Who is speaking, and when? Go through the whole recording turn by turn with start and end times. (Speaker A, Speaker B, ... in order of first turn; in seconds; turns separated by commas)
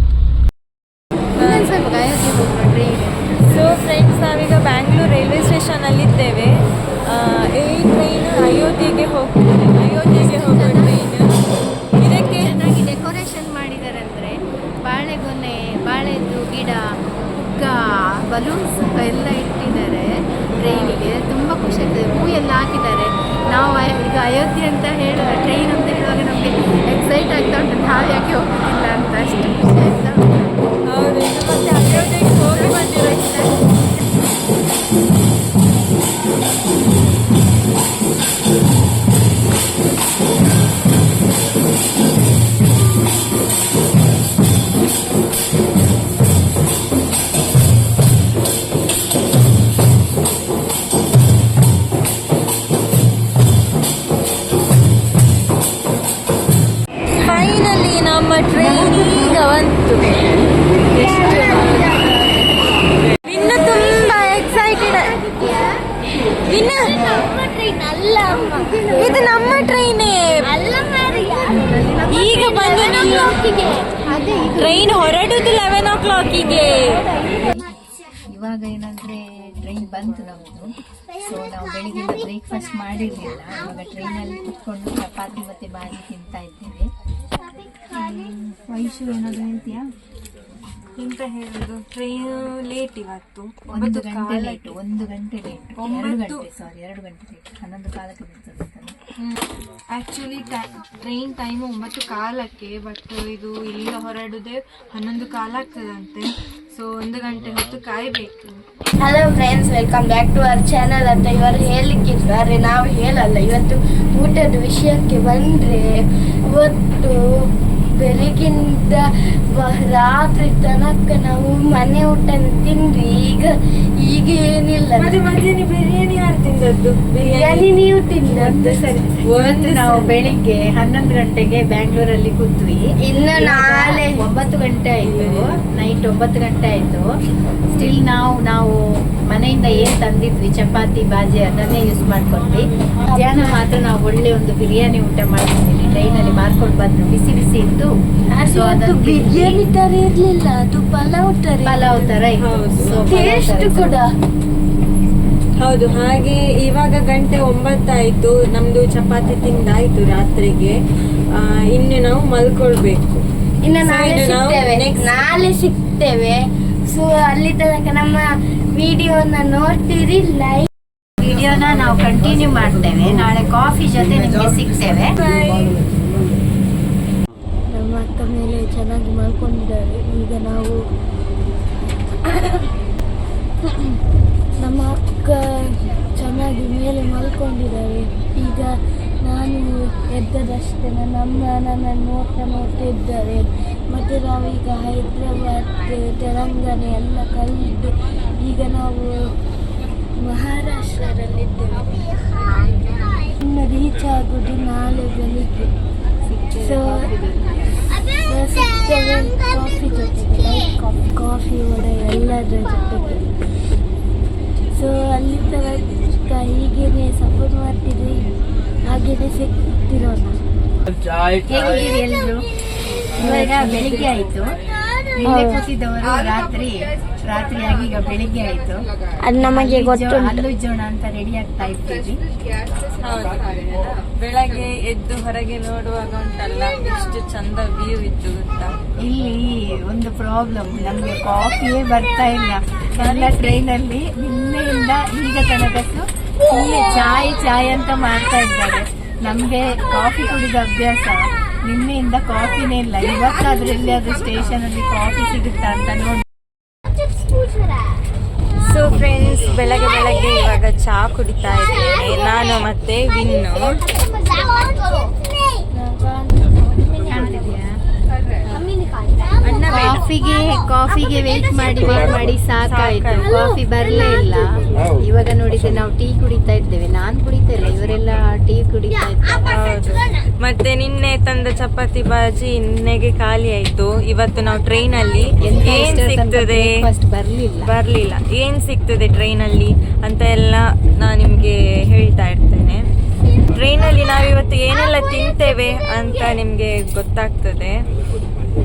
Speaker A: 1.4-3.7, Speaker B: 1.4-1.8, Speaker B: 3.5-6.5, Speaker B: 7.1-11.4, Speaker A: 9.9-10.9, Speaker A: 12.0-16.8, Speaker B: 12.0-12.5, Speaker A: 17.4-30.5, Speaker B: 20.6-21.0, Speaker B: 30.9-33.5, Speaker A: 31.8-33.4, Speaker B: 57.2-60.4, Speaker A: 58.6-59.3, Speaker C: 60.9-62.2, Speaker B: 60.9-61.9, Speaker B: 63.3-65.2, Speaker C: 64.7-65.8, Speaker B: 66.4-66.9, Speaker C: 66.7-69.4, Speaker A: 68.7-69.0, Speaker B: 69.0-70.4, Speaker C: 70.4-74.5, Speaker A: 71.4-73.0, Speaker B: 72.1-73.4, Speaker A: 74.0-75.1, Speaker B: 74.6-77.0, Speaker A: 77.2-77.6, Speaker A: 78.3-86.9, Speaker A: 87.9-89.8, Speaker B: 91.0-94.8, Speaker A: 93.7-99.0, Speaker B: 95.8-96.5, Speaker B: 99.9-108.6, Speaker C: 109.0-125.2, Speaker B: 125.0-127.7, Speaker C: 127.2-128.8, Speaker A: 128.4-132.8, Speaker B: 129.3-130.3, Speaker C: 133.0-134.2, Speaker A: 133.4-137.1, Speaker B: 135.0-135.5, Speaker A: 137.7-149.6, Speaker C: 143.1-143.6, Speaker C: 148.4-152.2, Speaker A: 151.7-154.0, Speaker B: 152.4-153.4, Speaker C: 153.1-154.1, Speaker B: 155.6-160.8, Speaker B: 161.4-163.0, Speaker C: 163.6-170.7, Speaker B: 163.8-165.2, Speaker A: 171.2-175.2, Speaker B: 175.1-175.8, Speaker C: 177.7-180.8, Speaker C: 182.3-182.6, Speaker C: 184.6-199.2, Speaker C: 200.2-202.1, Speaker C: 203.4-205.7, Speaker A: 206.3-207.7, Speaker C: 206.6-207.1, Speaker C: 208.3-213.3, Speaker C: 214.7-218.3, Speaker C: 218.9-220.4, Speaker A: 221.5-222.4, Speaker A: 223.2-224.4, Speaker C: 223.2-224.1, Speaker A: 225.2-228.9, Speaker C: 225.2-225.6, Speaker C: 229.2-230.5, Speaker A: 229.4-232.2, Speaker B: 233.0-238.8, Speaker A: 239.0-256.2, Speaker B: 242.9-243.6, Speaker B: 258.6-263.8, Speaker C: 265.8-267.6, Speaker A: 267.1-267.6, Speaker B: 269.4-270.0, Speaker A: 269.6-279.5, Speaker B: 272.7-273.3, Speaker B: 279.5-286.7, Speaker A: 285.4-287.7, Speaker B: 287.6-292.8, Speaker B: 293.6-297.8